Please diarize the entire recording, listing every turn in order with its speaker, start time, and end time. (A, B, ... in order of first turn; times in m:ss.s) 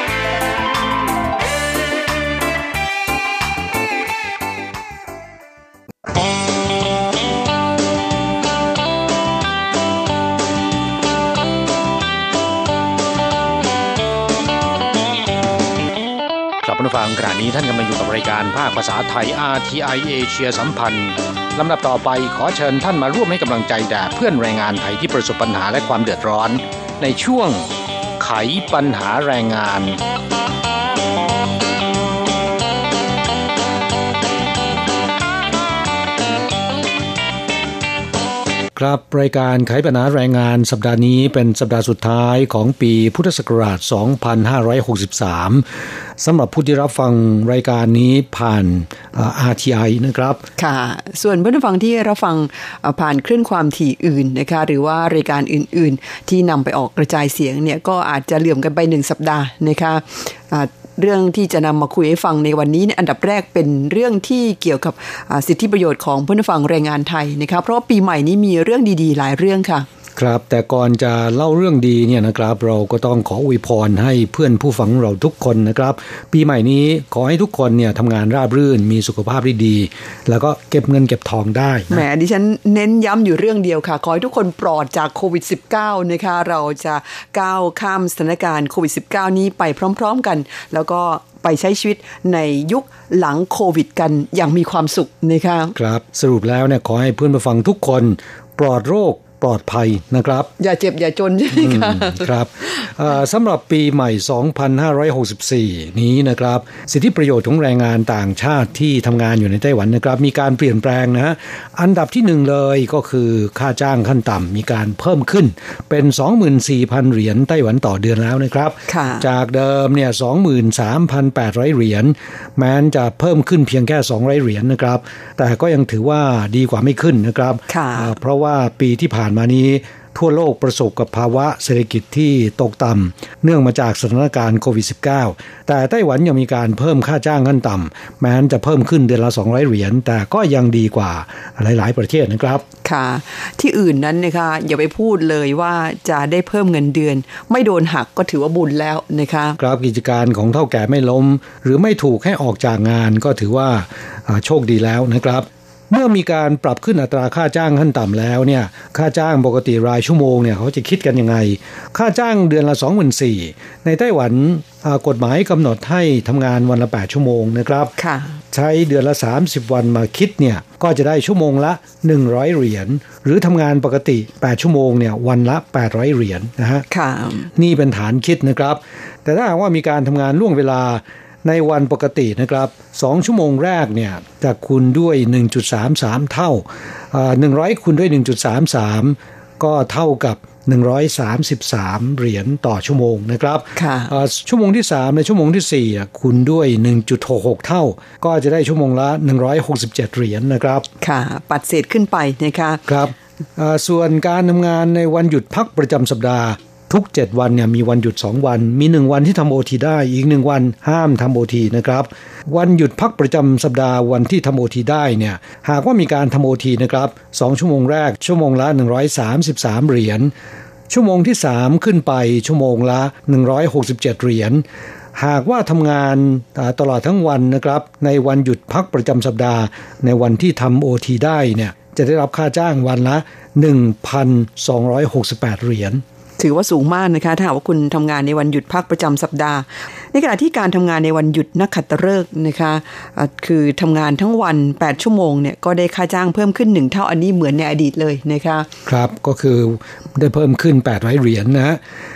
0:16.6-0:27.7 A
0:28.2-0:30.0 A
0:38.7-0:45.7 B
0:46.2-0:50.5 B
0:50.6-1:09.9 C
1:10.2-1:22.0 B
1:21.9-1:35.7 C
1:35.7-1:40.5 B
1:40.6-1:42.3 C
1:41.5-2:22.6 B
1:58.9-1:59.2 C
2:07.7-2:08.1 C
2:22.8-2:29.6 C
2:29.6-2:47.9 B
2:48.0-2:48.4 C
2:48.5-2:56.8 B
2:56.9-2:57.5 C
2:57.5-3:20.9 B
3:13.8-3:14.1 C
3:21.0-3:22.8 C
3:22.9-3:40.3 B
3:40.9-3:44.6 B
3:45.1-3:56.0 B
3:56.4-4:08.7 C
4:08.8-4:11.8 B